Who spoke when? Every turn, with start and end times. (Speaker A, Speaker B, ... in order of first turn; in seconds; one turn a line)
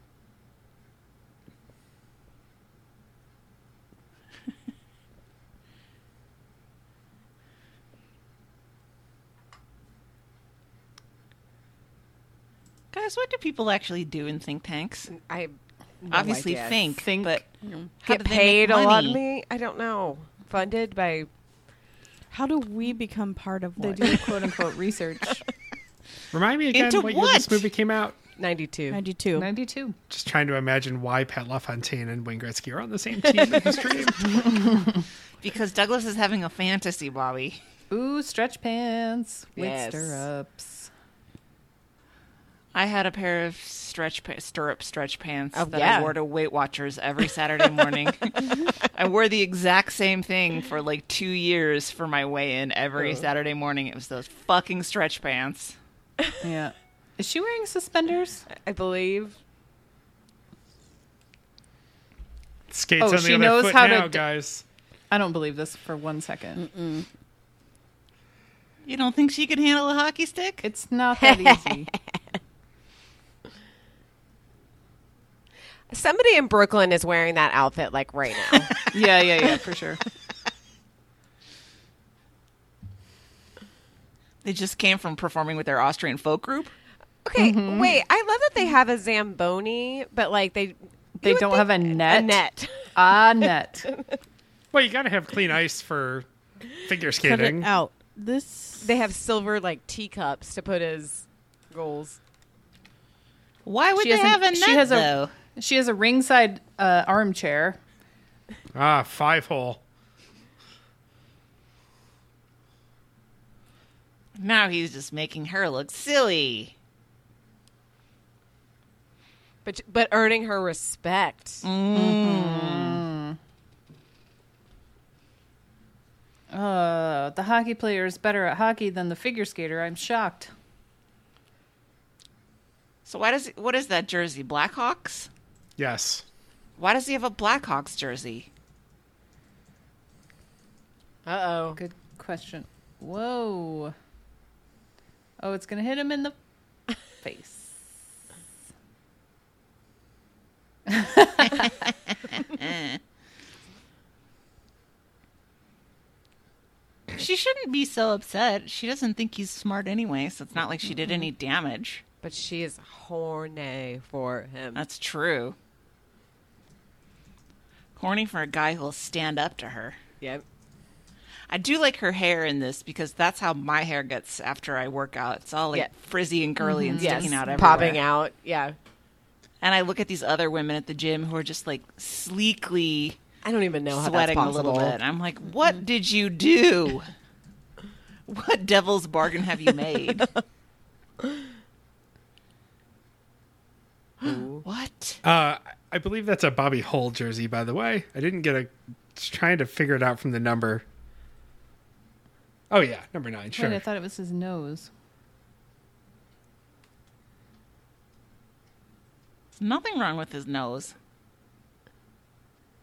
Speaker A: 12.9-15.1
Speaker B: 15.1-16.8
Speaker C: 16.1-17.4
Speaker A: 16.1-17.5
Speaker A: 18.0-19.2
Speaker B: 18.0-21.3
Speaker D: 22.3-24.3
Speaker C: 23.8-25.4
Speaker E: 26.3-28.2
Speaker A: 26.7-27.6
Speaker B: 28.4-29.0
Speaker D: 28.9-29.5
Speaker C: 29.3-30.0
Speaker E: 30.1-34.5
Speaker B: 33.3-34.0
Speaker C: 34.2-35.0
Speaker A: 35.4-37.6
Speaker C: 37.9-40.9
Speaker B: 39.5-40.2
Speaker A: 42.7-55.7
Speaker B: 45.5-46.1
Speaker B: 53.0-53.2
Speaker C: 56.4-58.5
Speaker B: 58.5-59.4
Speaker E: 62.7-64.6
Speaker C: 63.0-64.2
Speaker C: 65.1-66.7
Speaker D: 66.7-67.0
Speaker A: 68.8-70.6
Speaker C: 70.6-71.9
Speaker B: 71.2-71.8
Speaker B: 75.9-78.8
Speaker C: 78.8-80.0
Speaker A: 84.4-86.7
Speaker B: 87.2-92.9
Speaker C: 87.3-88.0
Speaker C: 91.2-92.4
Speaker C: 92.9-93.9
Speaker E: 94.7-96.3
Speaker E: 96.8-97.7
Speaker D: 97.2-98.9
Speaker B: 98.8-102.2
Speaker A: 103.6-105.3
Speaker C: 104.0-107.8
Speaker E: 108.7-109.8
Speaker A: 114.4-116.7
Speaker B: 119.6-121.6
Speaker A: 121.6-123.0
Speaker C: 121.9-123.4
Speaker C: 126.5-130.5
Speaker A: 133.1-135.3
Speaker E: 135.8-136.2
Speaker A: 136.8-138.5
Speaker B: 141.2-141.8
Speaker C: 141.8-143.9
Speaker C: 145.4-146.3
Speaker C: 147.2-147.8
Speaker C: 150.9-151.7
Speaker A: 152.4-153.0
Speaker A: 157.1-162.0
Speaker B: 162.2-164.8
Speaker A: 164.7-165.6
Speaker A: 167.9-170.0
Speaker A: 171.5-178.0
Speaker C: 176.6-178.0
Speaker B: 177.0-178.7
Speaker A: 179.6-183.2
Speaker B: 183.4-185.0
Speaker A: 183.9-187.1
Speaker A: 188.3-190.3
Speaker B: 194.2-194.6
Speaker A: 194.6-195.2
Speaker E: 195.2-200.8
Speaker E: 202.7-203.8
Speaker C: 203.5-204.9
Speaker A: 209.6-210.9